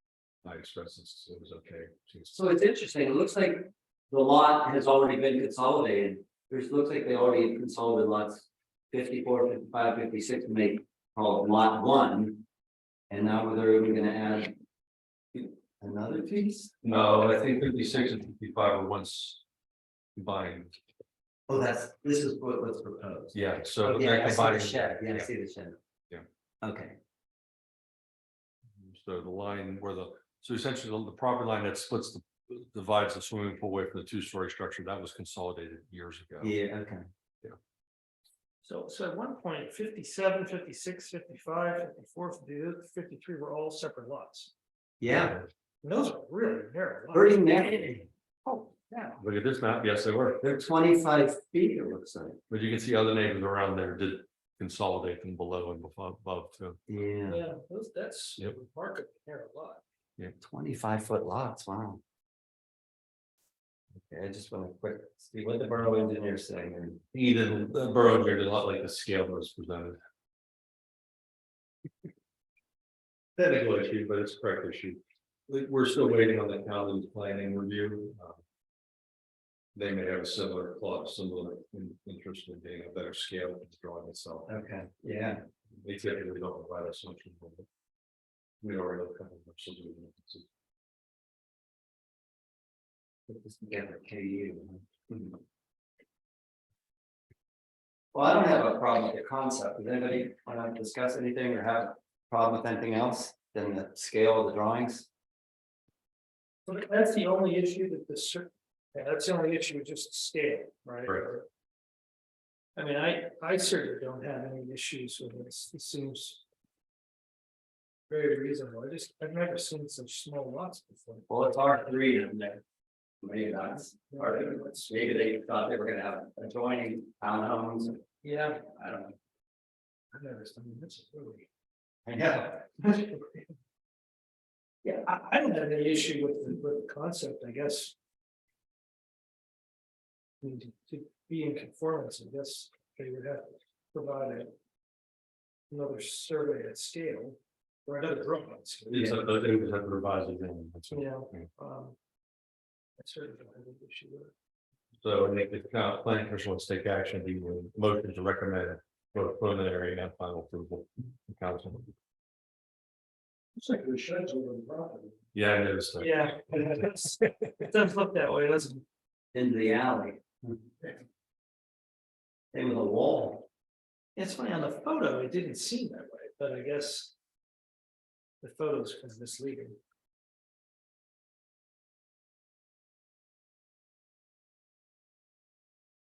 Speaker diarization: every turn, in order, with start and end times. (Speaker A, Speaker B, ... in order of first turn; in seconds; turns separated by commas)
Speaker A: 0.4-2.4, Speaker B: 2.3-12.4, Speaker B: 13.1-14.6, Speaker B: 15.3-16.8, Speaker A: 16.8-19.4, Speaker A: 20.1-20.8, Speaker B: 21.5-25.8, Speaker A: 23.3-25.3, Speaker B: 26.6-27.0, Speaker A: 28.8-36.5, Speaker B: 36.4-37.0, Speaker C: 38.6-44.5, Speaker B: 45.0-45.4, Speaker A: 45.1-45.5, Speaker C: 45.8-47.9, Speaker B: 47.1-48.1, Speaker C: 48.4-49.2, Speaker A: 49.2-50.4, Speaker B: 50.4-52.4, Speaker A: 52.5-56.8, Speaker B: 56.9-57.4, Speaker C: 57.3-59.8, Speaker B: 60.4-62.0, Speaker B: 64.1-67.0, Speaker A: 67.1-70.0, Speaker A: 73.4-78.4, Speaker A: 79.7-84.5, Speaker B: 84.5-85.4, Speaker A: 85.7-87.7, Speaker A: 88.6-90.5, Speaker B: 93.3-95.4, Speaker B: 98.1-105.1, Speaker C: 106.7-111.4, Speaker A: 111.0-111.3, Speaker C: 112.8-116.4, Speaker C: 118.1-121.2, Speaker B: 121.3-122.6, Speaker B: 123.2-128.0, Speaker C: 124.1-124.9, Speaker C: 128.2-128.6, Speaker B: 128.6-129.2, Speaker C: 130.1-131.4, Speaker B: 132.1-133.1, Speaker C: 134.8-137.9, Speaker C: 140.4-144.5, Speaker C: 145.7-149.3, Speaker A: 148.9-151.5, Speaker C: 150.9-151.9, Speaker C: 153.0-154.3, Speaker A: 155.0-161.9, Speaker C: 163.6-165.2, Speaker A: 165.3-166.7, Speaker C: 166.0-168.8, Speaker B: 169.3-170.6, Speaker B: 172.5-173.5, Speaker C: 174.2-177.1, Speaker C: 178.4-179.8